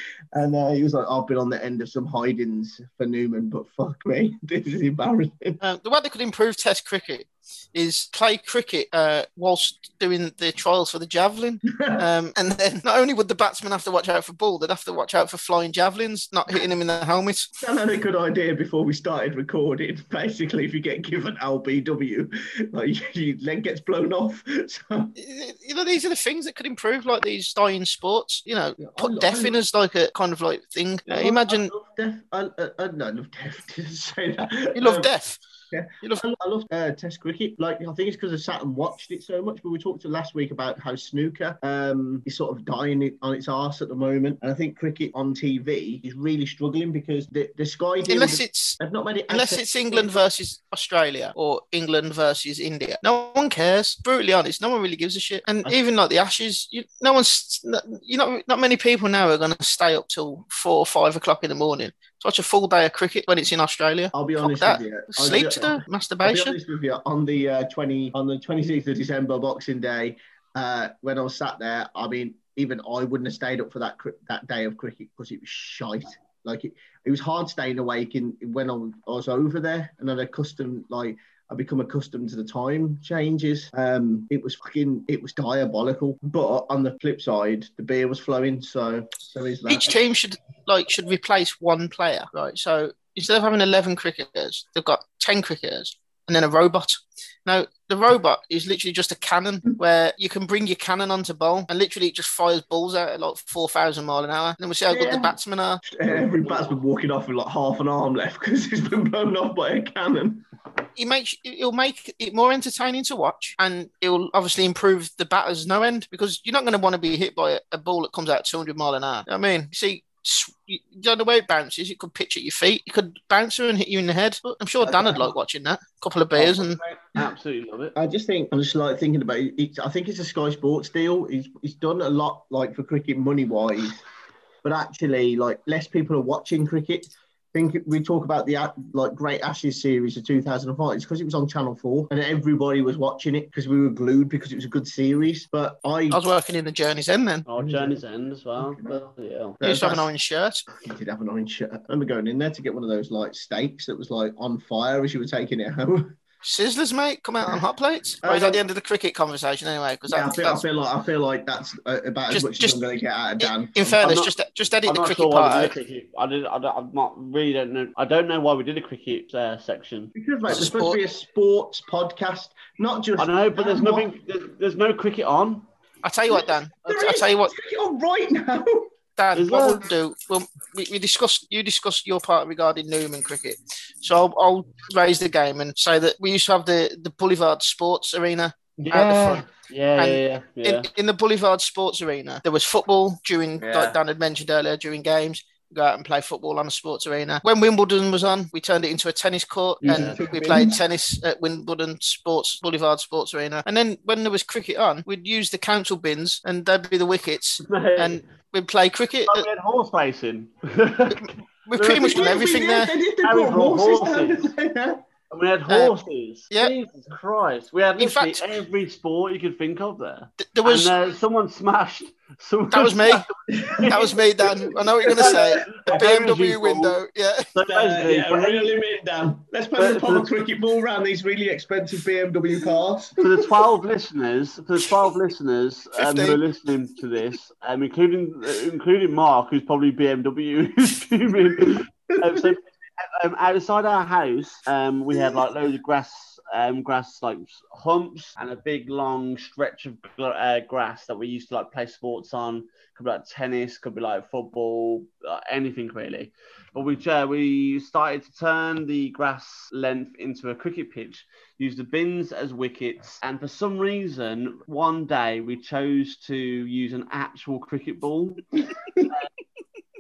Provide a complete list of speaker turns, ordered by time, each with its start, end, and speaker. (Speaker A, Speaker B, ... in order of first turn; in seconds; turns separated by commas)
Speaker A: 0.3-5.6, Speaker B: 5.6-17.5, Speaker A: 11.7-12.0, Speaker A: 17.6-25.1, Speaker B: 25.2-31.7, Speaker A: 28.8-29.6, Speaker A: 31.1-35.1, Speaker B: 34.8-35.4, Speaker A: 35.7-50.1, Speaker B: 48.1-48.8, Speaker B: 49.3-66.6, Speaker A: 64.1-90.0, Speaker B: 89.7-105.8, Speaker A: 104.9-105.3, Speaker A: 105.9-110.5, Speaker B: 111.0-126.8, Speaker A: 124.8-125.3, Speaker A: 126.3-127.3, Speaker C: 127.2-127.9, Speaker A: 128.0-134.0, Speaker A: 134.6-146.2, Speaker B: 146.1-147.4, Speaker C: 147.5-149.6, Speaker A: 147.6-148.0, Speaker A: 148.6-149.0, Speaker A: 149.6-150.1, Speaker B: 149.6-150.6, Speaker A: 150.8-156.2, Speaker B: 156.4-160.6, Speaker A: 158.2-158.6, Speaker A: 160.1-164.0, Speaker B: 162.3-162.8, Speaker B: 163.4-165.8, Speaker C: 164.0-164.3, Speaker C: 164.9-170.1, Speaker A: 170.2-174.1, Speaker B: 170.5-171.0, Speaker C: 173.2-175.7, Speaker B: 176.0-177.5, Speaker A: 176.3-178.9, Speaker B: 179.2-189.4, Speaker C: 179.3-179.9, Speaker C: 188.8-190.9, Speaker B: 190.0-209.5, Speaker C: 193.6-193.9, Speaker C: 199.8-200.2, Speaker A: 199.8-200.8, Speaker C: 207.6-208.2, Speaker C: 209.3-212.4, Speaker B: 211.2-212.9, Speaker A: 211.9-215.0, Speaker C: 213.2-214.5, Speaker C: 215.3-224.1, Speaker B: 215.7-215.9, Speaker B: 218.0-218.5, Speaker B: 220.4-220.9, Speaker B: 222.7-223.3, Speaker A: 223.5-225.9, Speaker B: 223.9-227.5, Speaker C: 225.0-227.0, Speaker C: 227.5-228.7, Speaker A: 227.7-233.2, Speaker C: 229.8-230.3, Speaker C: 233.2-268.4, Speaker B: 236.0-236.4, Speaker A: 242.2-242.5